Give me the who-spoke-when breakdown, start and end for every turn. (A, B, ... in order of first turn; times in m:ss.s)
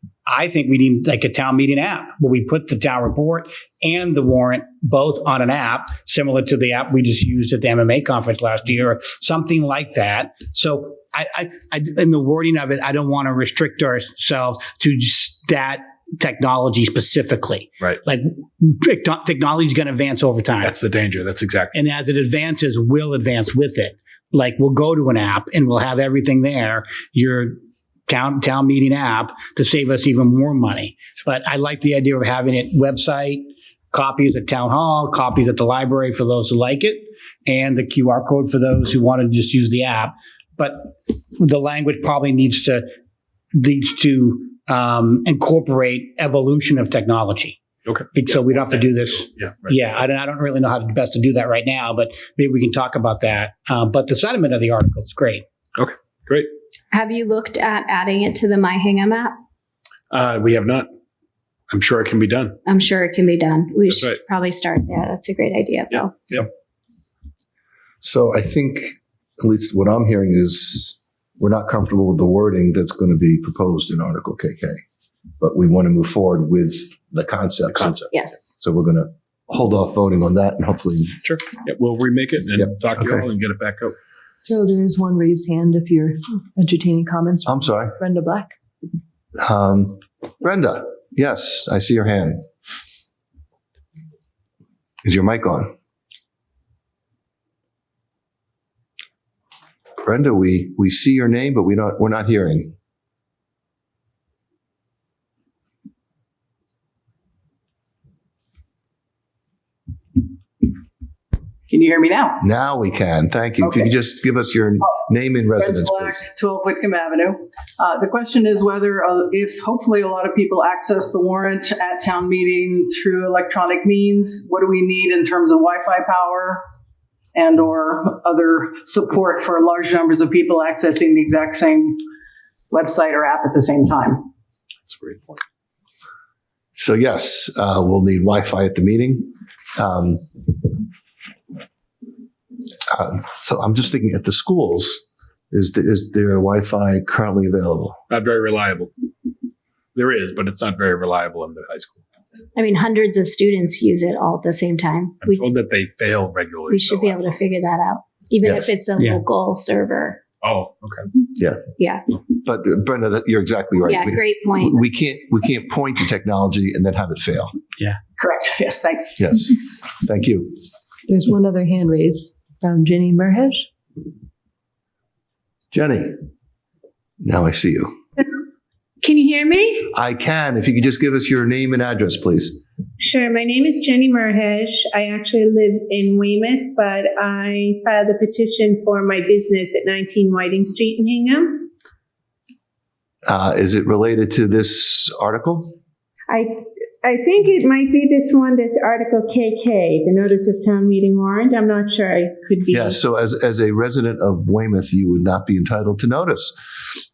0:00.3-0:20.8 A
0:20.6-0:21.8 B
0:21.7-0:27.6 A
0:28.1-0:42.8 A
0:43.5-0:47.6 A
0:47.8-0:49.8 B
0:48.1-0:55.4 A
0:55.8-0:56.5 B
0:56.9-0:59.3 C
1:00.1-1:00.9 B
1:01.7-1:02.6 B
1:02.6-1:06.1 C
1:03.9-1:04.2 B
1:05.9-1:06.5 B
1:08.0-1:14.8 D
1:15.4-1:21.2 D
1:17.7-1:18.1 B
1:18.1-1:18.5 C
1:21.2-1:24.0 B
1:22.6-1:23.2 D
1:24.5-1:28.5 E
1:27.4-1:28.0 D
1:29.4-1:32.4 D
1:35.0-1:35.7 D
1:40.0-1:42.7 D
1:51.7-1:52.4 F
1:52.4-1:56.2 D
1:53.6-1:53.9 F
1:55.6-2:06.6 F
2:07.3-2:12.0 F
2:12.7-2:14.2 F
2:14.9-2:15.4 B
2:16.7-2:20.2 D
2:22.9-2:28.0 D
2:28.1-2:28.9 B
2:29.9-2:32.0 B
2:32.6-2:35.4 C
2:35.2-2:37.6 B
2:36.7-2:40.2 C
2:38.4-2:38.7 D
2:40.4-2:41.0 B
2:41.4-2:41.6 D
2:41.8-2:42.0 C
2:42.4-2:47.5 D
2:43.8-2:44.8 C
2:48.2-2:49.2 F
2:49.2-2:50.6 D
2:51.1-2:53.7 E
2:55.7-2:56.1 D
2:57.2-2:57.9 D
2:59.0-2:59.9 G
2:59.9-3:02.6 D
3:03.0-3:11.7 G
3:13.2-3:15.8 D
3:16.3-3:23.0 G
3:22.7-3:26.7 D